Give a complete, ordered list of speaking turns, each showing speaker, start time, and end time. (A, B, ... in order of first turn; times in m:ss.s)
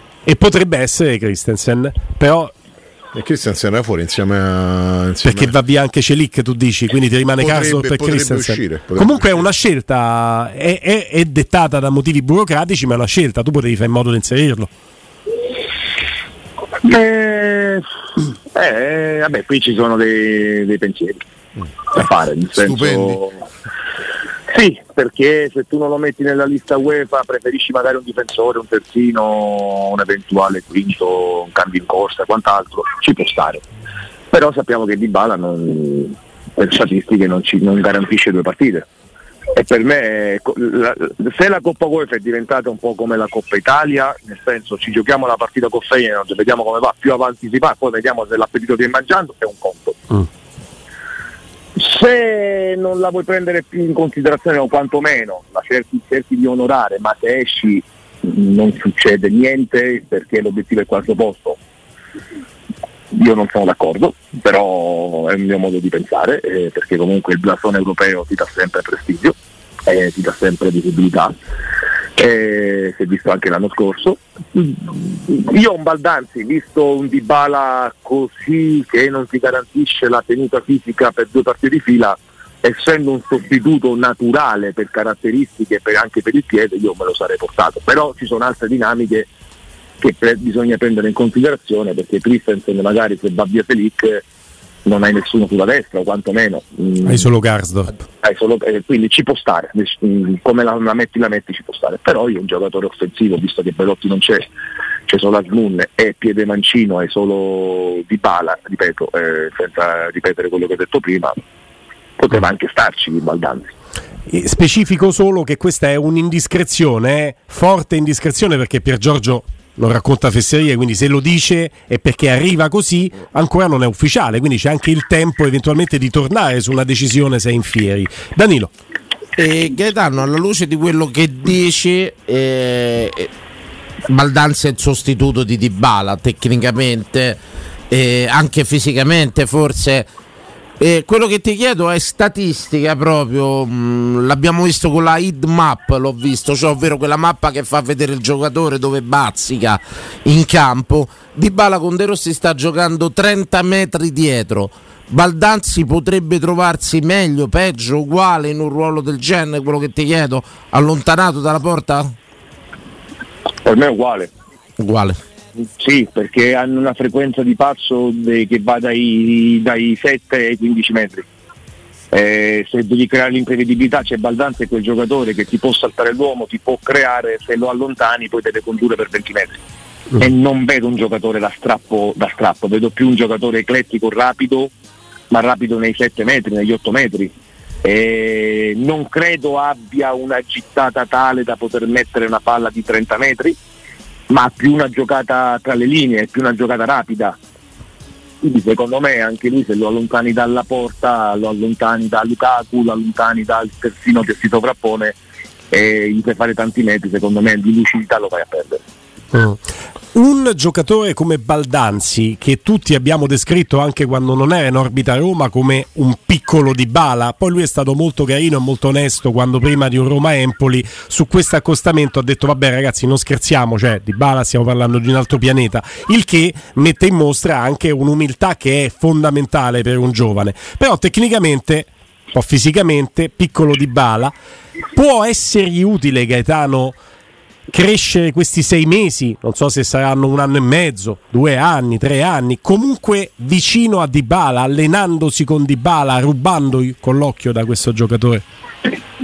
0:00.2-0:02.5 A
0:03.1-0:05.6 B
0:05.2-0:14.7 A
0:07.4-0:09.5 B
0:16.8-0:17.8 C
0:18.5-0:21.2 C
0:22.0-0:23.4 C
0:22.6-0:23.2 B
0:24.5-0:33.6 C
0:34.3-0:38.8 C
0:39.5-0:50.0 C
0:51.8-1:01.6 C
1:03.1-1:09.3 C
1:09.8-1:11.3 C
1:12.2-1:29.3 C
1:30.0-1:34.2 C
1:34.8-1:37.2 C
1:37.0-1:38.0 A
1:38.2-1:44.5 C
1:45.1-1:51.3 C
1:52.2-1:53.7 C
1:54.3-2:08.7 A
2:09.4-2:13.3 D
2:14.1-2:17.4 D
2:17.9-2:20.1 D
2:20.8-2:42.1 D
2:43.6-2:44.3 C
2:44.8-2:45.2 D
2:45.8-2:51.2 C
2:52.1-2:59.6 C
3:00.2-3:04.7 C
3:05.3-3:13.6 C
3:14.3-3:17.4 C
3:18.4-3:25.2 C
3:25.7-3:28.8 C
3:29.3-3:29.6 A
3:30.1-3:54.3 A
3:54.9-3:56.9 A
3:57.7-4:08.4 A